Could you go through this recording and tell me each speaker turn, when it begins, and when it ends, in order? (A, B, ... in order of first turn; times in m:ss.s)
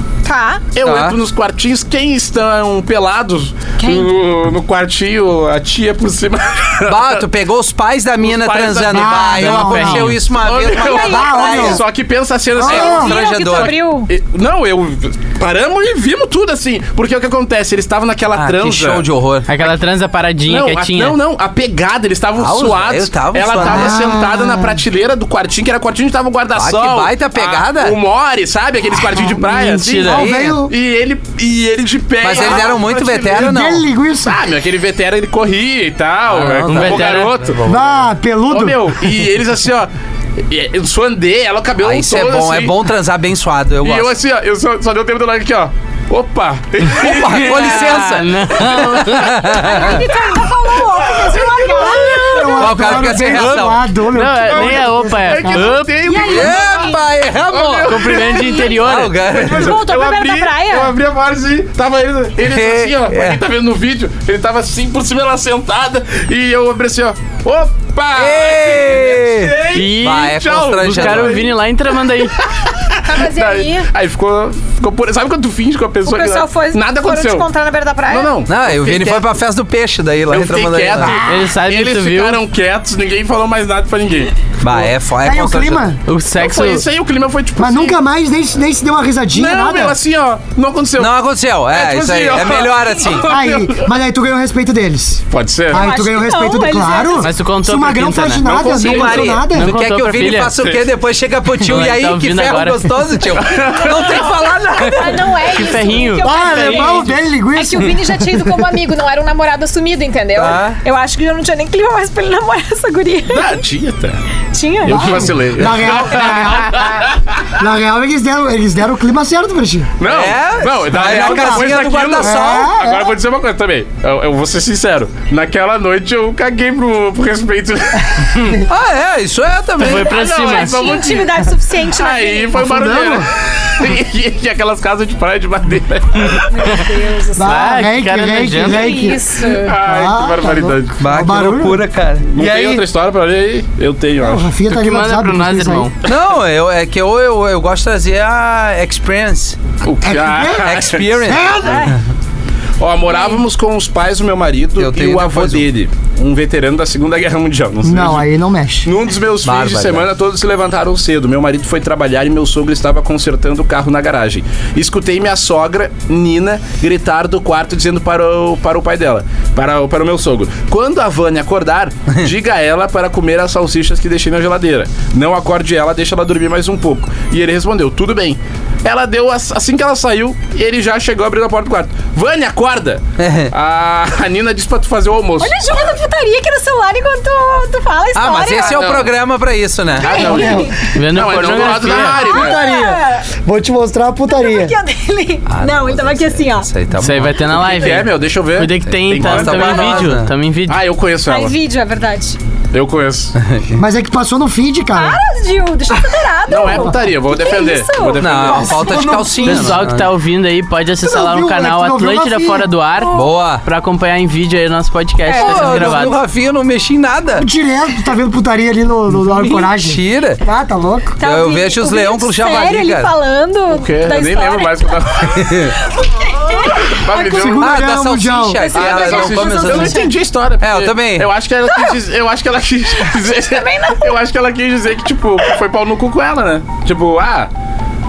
0:00.2-0:00.6 A
0:00.8-0:07.3 B
0:00.8-0:01.2 C
0:03.8-0:04.1 A
0:06.9-0:11.8 C
0:08.2-0:09.4 B
0:08.9-0:10.2 D
0:09.4-0:10.2 E
0:10.3-0:19.1 B
0:10.7-0:11.8 A
0:10.9-0:11.8 D
0:12.6-0:13.2 D
0:12.6-0:13.8 C
0:12.6-0:14.1 A
0:18.4-0:19.5 C
0:19.5-0:21.2 E
0:20.5-0:33.6 B
0:22.4-0:24.2 C
0:23.6-0:24.8 D
0:26.6-0:28.0 C
0:29.2-0:30.2 E
0:30.0-0:30.7 D
0:30.1-0:30.6 C
0:32.2-0:33.9 C
0:33.3-0:34.4 D
0:34.2-0:37.9 B
0:36.3-0:37.8 C
0:36.6-0:37.3 E
0:37.6-0:39.1 D
0:38.5-0:39.9 B
0:40.5-0:42.8 B
0:41.8-0:44.1 C
0:43.8-0:49.3 B
0:46.9-0:50.1 C
0:47.5-0:49.4 E
0:49.4-0:52.9 A
0:50.9-0:52.1 B
0:51.8-0:55.7 D
0:52.5-0:53.8 C
0:54.1-0:56.1 E
0:54.4-0:56.9 B
0:56.0-0:57.0 A
0:56.2-0:59.8 C
0:57.4-1:11.5 B
0:57.9-0:59.2 E
0:58.2-0:58.7 A
0:59.3-1:00.9 A
1:02.4-1:03.4 C
1:08.2-1:11.5 C
1:09.7-1:12.4 E
1:12.2-1:17.5 B
1:13.0-1:13.9 A
1:16.1-1:18.3 A
1:18.1-1:19.3 B
1:18.5-1:21.2 C
1:20.3-1:24.3 B
1:21.2-1:22.4 E
1:24.6-1:25.9 C
1:24.7-1:26.0 D
1:26.1-1:26.8 E
1:26.4-1:28.0 B
1:27.6-1:30.0 D
1:29.3-1:31.2 B
1:31.0-1:33.3 C
1:31.7-1:33.9 B
1:33.3-1:39.7 D
1:35.3-1:35.8 B
1:35.7-1:37.3 A
1:37.2-1:38.6 E
1:38.4-1:39.5 B
1:38.5-1:45.3 C
1:39.5-1:40.5 E
1:40.6-1:40.9 B
1:41.7-1:43.0 E
1:43.4-1:44.3 B
1:43.8-1:53.6 A
1:45.5-1:47.2 E
1:46.2-1:48.8 D
1:50.4-1:50.8 C
1:53.3-1:54.2 B
1:54.5-1:55.3 A
1:54.8-1:57.5 B
1:54.9-1:59.9 D
2:00.0-2:08.6 B
2:00.0-2:02.7 C
2:01.0-2:03.2 D
2:08.7-2:10.2 C
2:09.8-2:16.8 B
2:09.8-2:11.0 E
2:10.3-2:12.6 A
2:12.6-2:13.3 D
2:16.5-2:17.6 A
2:17.4-2:22.8 D
2:17.4-2:19.2 E
2:18.6-2:19.7 A
2:19.5-2:21.1 B
2:21.0-2:22.3 C
2:22.3-2:24.5 B
2:24.2-2:25.9 D
2:24.7-2:26.0 E
2:26.0-2:29.6 C
2:29.8-2:31.6 B
2:30.0-2:32.0 D
2:30.6-2:32.0 C
2:31.6-2:31.9 A
2:32.8-2:38.3 B
2:33.1-2:33.4 A
2:34.8-2:35.6 C
2:37.8-2:38.9 D
2:38.8-3:05.5 B
2:39.4-2:40.1 C
3:03.2-3:03.5 C
3:05.4-3:09.0 A
3:08.2-3:10.3 C
3:08.6-3:09.1 B
3:10.0-3:12.6 B
3:10.0-3:10.8 A
3:10.2-3:10.7 D
3:10.8-3:12.2 E
3:11.9-3:13.3 A
3:11.9-3:14.7 D
3:14.3-3:16.7 A
3:15.5-3:17.6 C
3:17.0-3:20.8 E
3:17.5-3:20.1 B
3:18.8-3:20.3 C
3:20.7-3:21.6 B
3:21.3-3:22.4 A
3:22.7-3:23.4 B
3:23.4-3:23.8 C
3:23.8-3:25.2 D
3:24.9-3:29.0 A
3:26.5-3:29.2 B
3:28.2-3:30.1 C
3:28.5-3:29.9 D
3:29.4-3:36.2 E
3:31.0-3:32.7 D
3:33.0-3:33.3 A
3:33.1-3:33.6 C
3:35.2-3:36.2 A
3:35.3-3:37.5 C
3:37.4-3:41.2 D
3:39.3-3:40.4 C
3:41.2-3:47.8 A
3:41.2-3:43.1 C
3:43.7-3:45.6 B
3:45.3-3:45.8 C
3:46.9-3:47.7 B
3:47.2-3:48.7 D
3:47.6-3:50.1 C
3:48.6-3:50.1 A
3:48.7-3:57.5 B
3:50.6-3:51.3 C
3:51.7-3:52.0 A
3:53.0-3:54.2 A